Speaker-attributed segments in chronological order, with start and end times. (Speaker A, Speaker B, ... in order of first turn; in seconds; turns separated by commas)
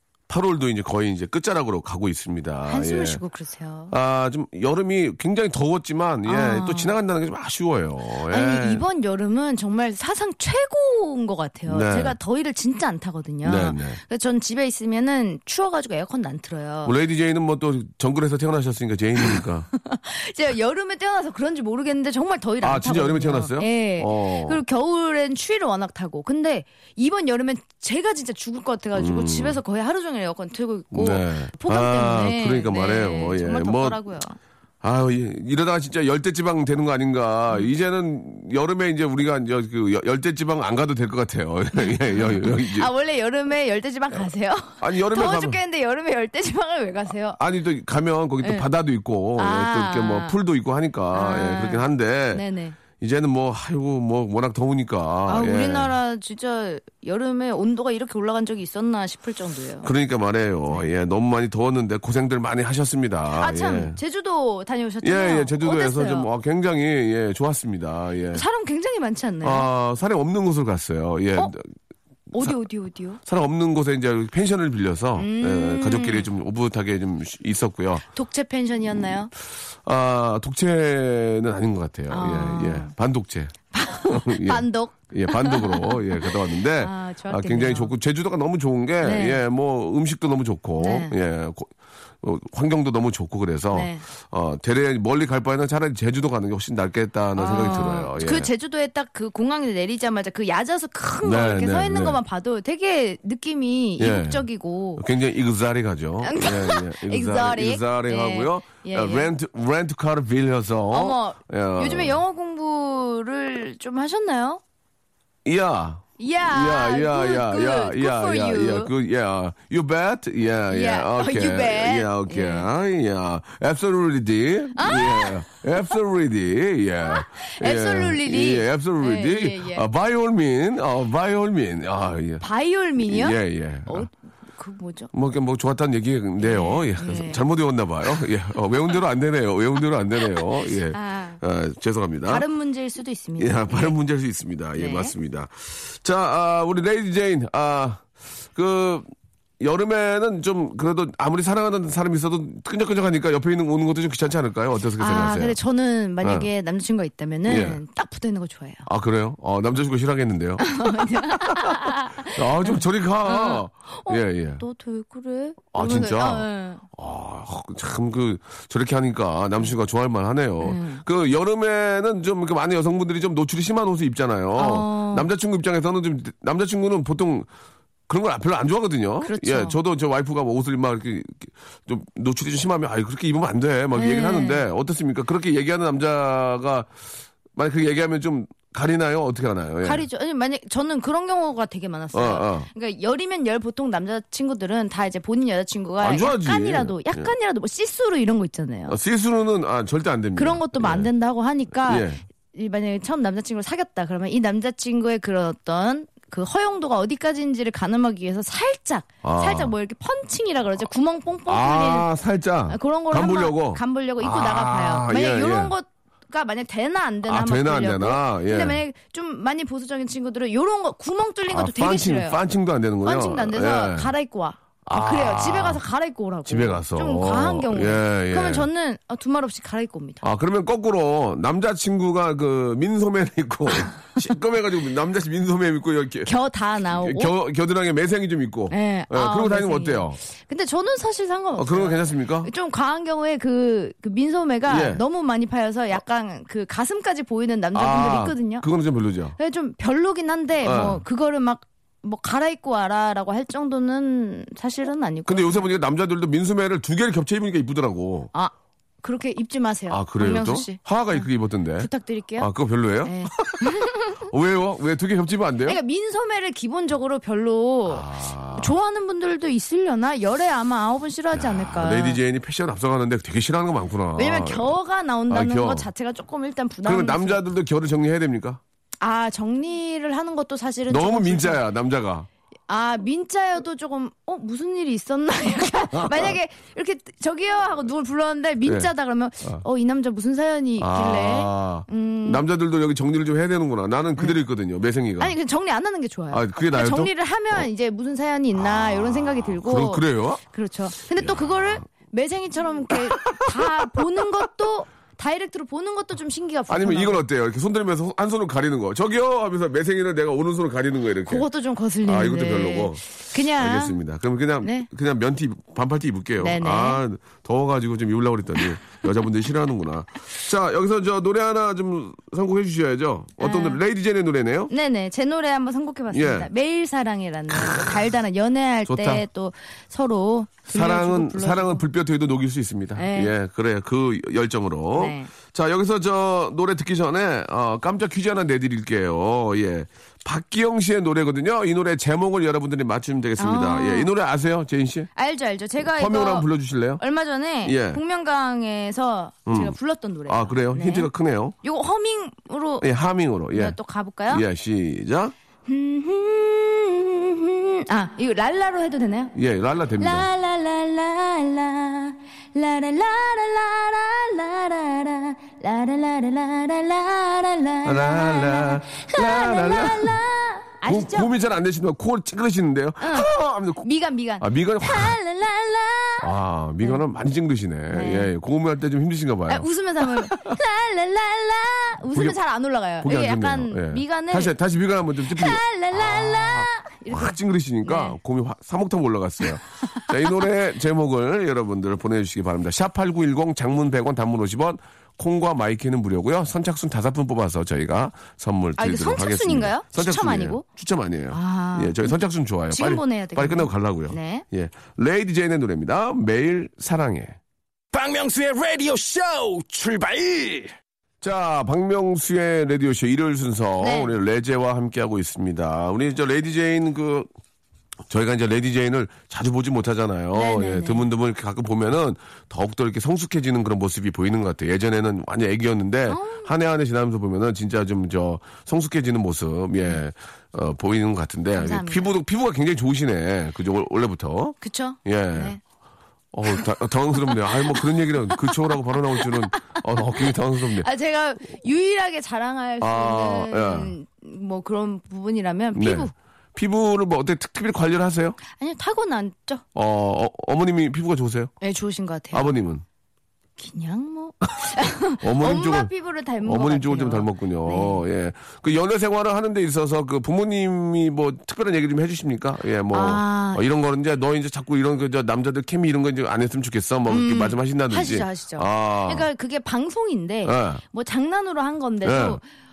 Speaker A: 0.3-3.2, Speaker B: 2.7-3.9, Speaker A: 3.9-8.8, Speaker B: 6.3-6.9, Speaker B: 8.3-16.9, Speaker A: 11.7-12.2, Speaker A: 13.4-14.0, Speaker A: 16.8-19.7, Speaker B: 19.2-34.4, Speaker A: 22.6-24.6, Speaker A: 28.9-29.6, Speaker A: 30.9-34.0, Speaker A: 34.8-42.9, Speaker B: 41.8-47.4, Speaker A: 44.8-45.6, Speaker A: 47.4-52.4, Speaker B: 49.4-50.4, Speaker B: 51.1-52.8, Speaker A: 53.0-55.9, Speaker B: 55.3-59.9, Speaker A: 59.8-64.0, Speaker B: 63.4-66.3, Speaker A: 65.0-68.4, Speaker B: 68.3-69.7, Speaker A: 69.4-71.6, Speaker B: 72.3-73.2, Speaker A: 73.2-78.0, Speaker B: 75.2-76.3, Speaker B: 78.1-79.3, Speaker A: 79.8-98.5, Speaker B: 82.1-82.9, Speaker B: 83.7-87.9, Speaker B: 89.0-89.4, Speaker B: 90.8-91.2, Speaker B: 93.7-94.0, Speaker B: 97.4-105.0, Speaker A: 101.2-102.2, Speaker A: 104.0-104.5, Speaker A: 105.0-112.2, Speaker B: 106.2-109.3, Speaker B: 110.9-114.6, Speaker A: 115.5-132.4, Speaker B: 116.2-118.9, Speaker B: 120.7-122.7, Speaker B: 124.8-125.5, Speaker B: 127.0-129.8, Speaker B: 132.4-135.1, Speaker A: 133.0-134.1, Speaker A: 135.1-142.4, Speaker B: 136.4-137.4, Speaker B: 140.4-141.4, Speaker B: 142.3-144.0, Speaker A: 143.4-149.1, Speaker B: 144.8-145.1, Speaker A: 149.6-155.6, Speaker B: 155.0-158.9, Speaker A: 156.2-156.5, Speaker A: 157.5-157.8, Speaker A: 158.9-164.6, Speaker B: 160.6-166.8, Speaker A: 165.7-177.5, Speaker B: 170.6-171.0, Speaker B: 174.6-175.3, Speaker A: 178.1-186.9, Speaker B: 179.2-179.8, Speaker B: 183.9-184.7, Speaker A: 187.5-190.1, Speaker B: 189.8-199.0, Speaker A: 192.1-192.7, Speaker A: 196.0-197.3, Speaker A: 198.9-201.1, Speaker B: 200.4-212.1, Speaker A: 201.9-202.2, Speaker A: 209.2-209.7, Speaker A: 211.5-215.7, Speaker B: 212.7-222.4, Speaker A: 217.3-218.8, Speaker A: 221.5-224.1, Speaker B: 223.0-230.2, Speaker A: 224.8-225.8, Speaker A: 226.5-228.7, Speaker A: 230.2-236.3, Speaker B: 236.2-237.3, Speaker A: 236.9-240.2, Speaker B: 238.7-248.7, Speaker A: 241.6-242.5, Speaker A: 244.7-245.0, Speaker A: 247.7-249.4, Speaker B: 249.4-255.7, Speaker A: 250.6-251.0, Speaker A: 255.3-258.3, Speaker B: 259.0-262.5, Speaker A: 259.9-265.8, Speaker B: 263.0-264.3, Speaker B: 265.6-272.2, Speaker A: 267.9-268.7, Speaker A: 271.3-274.7, Speaker B: 274.2-277.4, Speaker A: 275.3-275.9, Speaker A: 276.9-278.6, Speaker B: 279.0-281.6, Speaker A: 280.9-282.3, Speaker B: 282.7-292.4, Speaker A: 285.9-286.4, Speaker A: 288.6-288.9, Speaker A: 290.8-295.4, Speaker B: 295.2-307.2, Speaker A: 296.3-297.7, Speaker A: 298.6-300.4, Speaker A: 301.1-301.8, Speaker A: 302.9-303.9, Speaker A: 306.7-311.5, Speaker B: 311.3-314.0, Speaker A: 312.0-324.7, Speaker B: 314.6-314.9, Speaker B: 316.4-317.0, Speaker B: 323.4-323.8, Speaker B: 324.7-331.8, Speaker A: 326.1-326.5, Speaker A: 327.5-327.9, Speaker A: 328.9-329.2, Speaker A: 330.7-345.1, Speaker B: 333.0-333.3, Speaker B: 334.9-335.3, Speaker B: 343.4-344.1, Speaker B: 345.2-346.5, Speaker A: 345.8-347.0, Speaker B: 347.0-351.1, Speaker A: 347.6-348.0, Speaker A: 349.5-349.8, Speaker A: 350.3-351.6, Speaker B: 351.6-352.9, Speaker A: 352.8-353.8, Speaker B: 353.5-354.4, Speaker A: 354.3-355.3, Speaker B: 355.7-359.4, Speaker A: 359.4-360.3, Speaker B: 360.0-371.3, Speaker A: 367.9-370.2, Speaker A: 370.9-373.9, Speaker B: 373.0-376.3, Speaker A: 374.4-375.2, Speaker A: 376.2-380.6, Speaker B: 377.9-378.3, Speaker B: 379.5-384.6, Speaker A: 383.0-407.4, Speaker B: 385.2-388.2, Speaker B: 389.8-390.1, Speaker B: 398.8-400.6, Speaker B: 401.3-402.2, Speaker B: 402.7-404.4, Speaker C: 407.9-410.7, Speaker A: 411.2-417.3, Speaker B: 413.8-414.1, Speaker A: 418.1-435.6, Speaker B: 420.3-421.1, Speaker B: 426.1-426.5, Speaker B: 431.6-432.1, Speaker B: 434.6-435.6, Speaker A: 436.3-440.9, Speaker B: 437.3-437.8, Speaker B: 438.3-438.6, Speaker B: 439.2-446.1, Speaker A: 442.8-443.9, Speaker A: 445.8-448.4, Speaker B: 448.5-449.6, Speaker A: 449.8-451.5, Speaker B: 451.6-452.5, Speaker A: 452.3-452.8, Speaker B: 453.6-458.0, Speaker A: 455.2-455.9, Speaker A: 456.4-469.3, Speaker B: 462.9-463.6, Speaker B: 467.1-472.4, Speaker A: 470.4-470.8, Speaker A: 472.0-472.4